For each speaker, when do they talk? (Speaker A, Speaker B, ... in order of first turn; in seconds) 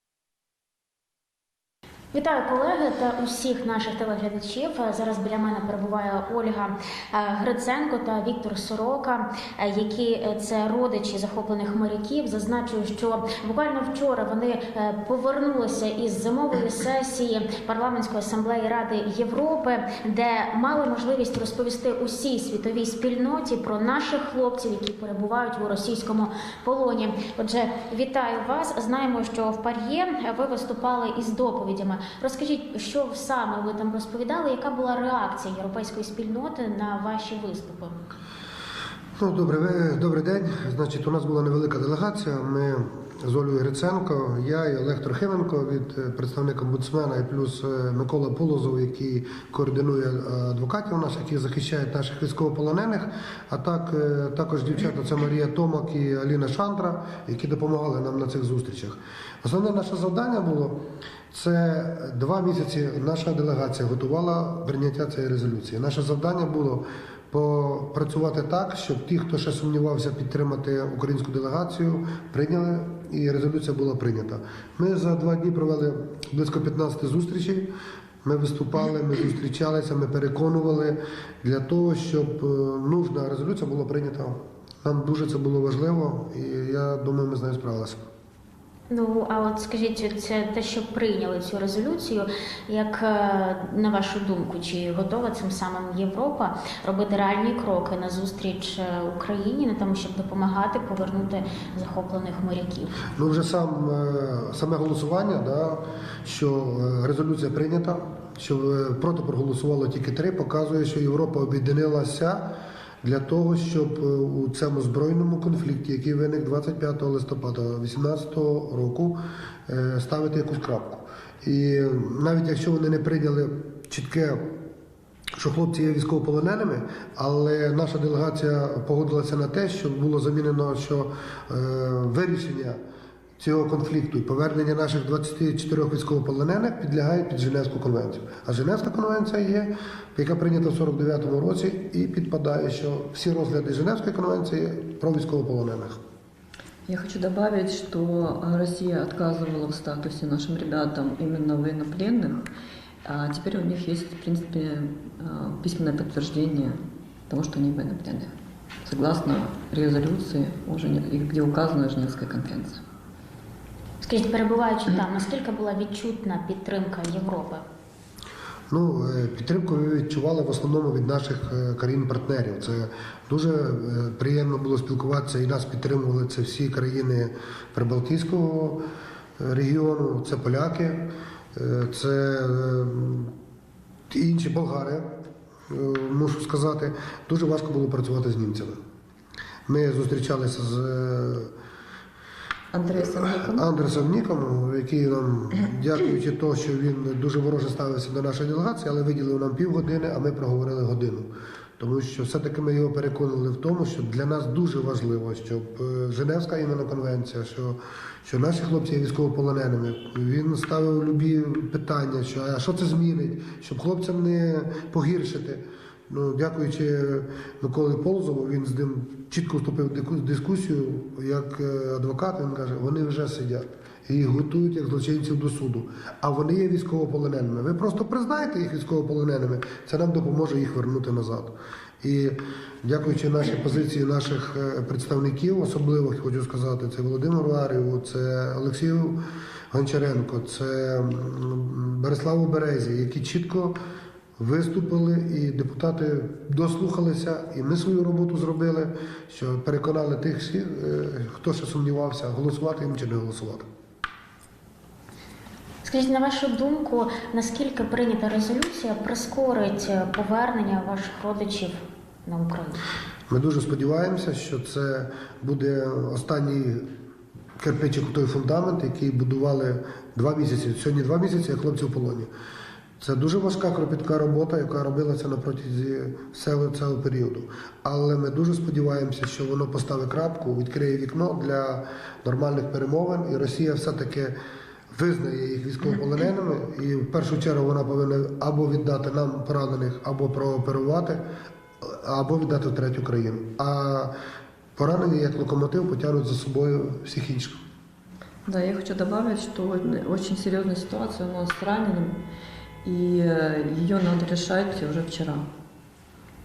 Speaker A: 2.1-38.0, 88.9-103.0, 164.0-167.6, 255.8-262.8
Speaker B: 39.2-77.7, 78.2-88.0, 103.2-124.5, 125.4-132.8, 133.4-146.0, 168.7-178.8, 179.4-183.3, 184.1-185.1, 185.7-188.8, 189.7-191.5, 193.3-243.8, 244.4-253.7, 263.3-266.9, 267.6-272.3, 273.0-284.4, 284.9-291.2, 291.8-294.1, 294.8-297.6
Speaker C: 146.9-152.4, 153.1-158.3, 158.8-162.8, 192.7-193.7, 298.5-302.2, 302.8-305.4